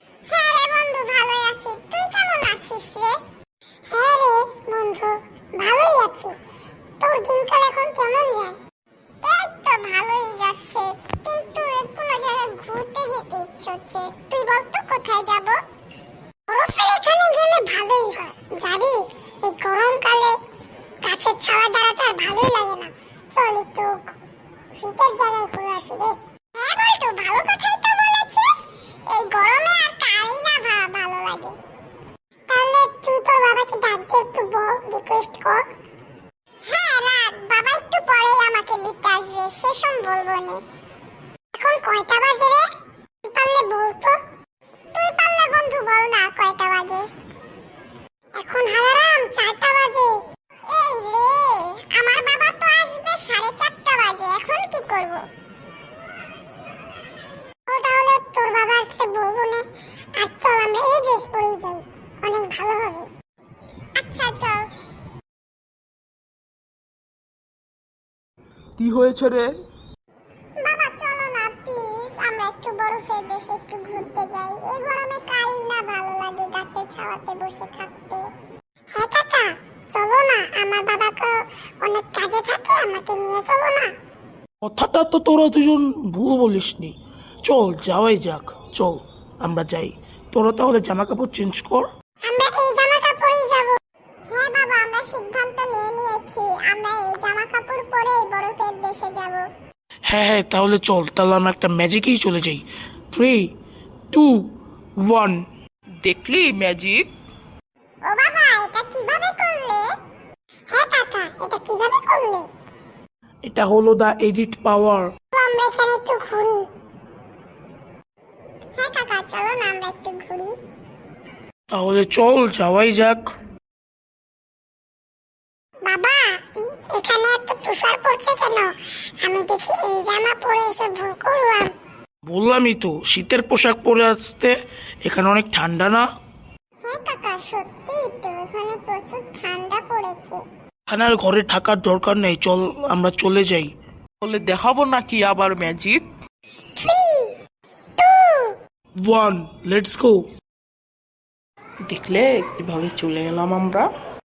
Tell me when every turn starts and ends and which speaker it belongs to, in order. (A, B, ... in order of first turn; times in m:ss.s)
0:00.3-0:03.2 A
0:03.8-0:06.4 A
0:07.0-0:08.6 A
0:09.2-0:15.6 A
0:16.5-0:20.4 A
0:21.0-0:24.1 A
0:24.7-0:31.6 A
0:32.5-0:35.7 A
0:36.6-0:40.6 A
0:41.5-0:42.7 A
0:43.2-0:44.2 A
0:44.9-0:47.1 A
0:48.4-0:55.3 A
0:57.7-1:03.1 A
1:04.0-1:04.7 A
1:08.8-1:09.6 B
1:10.6-1:18.3 A
1:18.9-1:23.9 A
1:24.6-1:26.9 C
1:27.4-1:31.8 C
1:32.2-1:33.8 A
1:34.3-1:39.5 A
1:40.1-1:43.5 C
1:44.1-1:44.5 C
1:45.0-1:45.4 C
1:46.0-1:47.1 B
1:48.0-1:49.9 A
1:50.7-1:52.5 A
1:53.4-1:55.1 C
1:55.3-1:56.7 A
1:58.8-2:00.6 A
2:01.7-2:03.2 C
2:05.8-2:11.7 A
2:12.3-2:16.1 C
2:16.8-2:20.4 A
2:20.9-2:23.7 C
2:24.2-2:26.0 B
2:26.8-2:27.3 A
2:28.0-2:28.6 A
2:29.0-2:30.2 C
2:31.8-2:33.9 B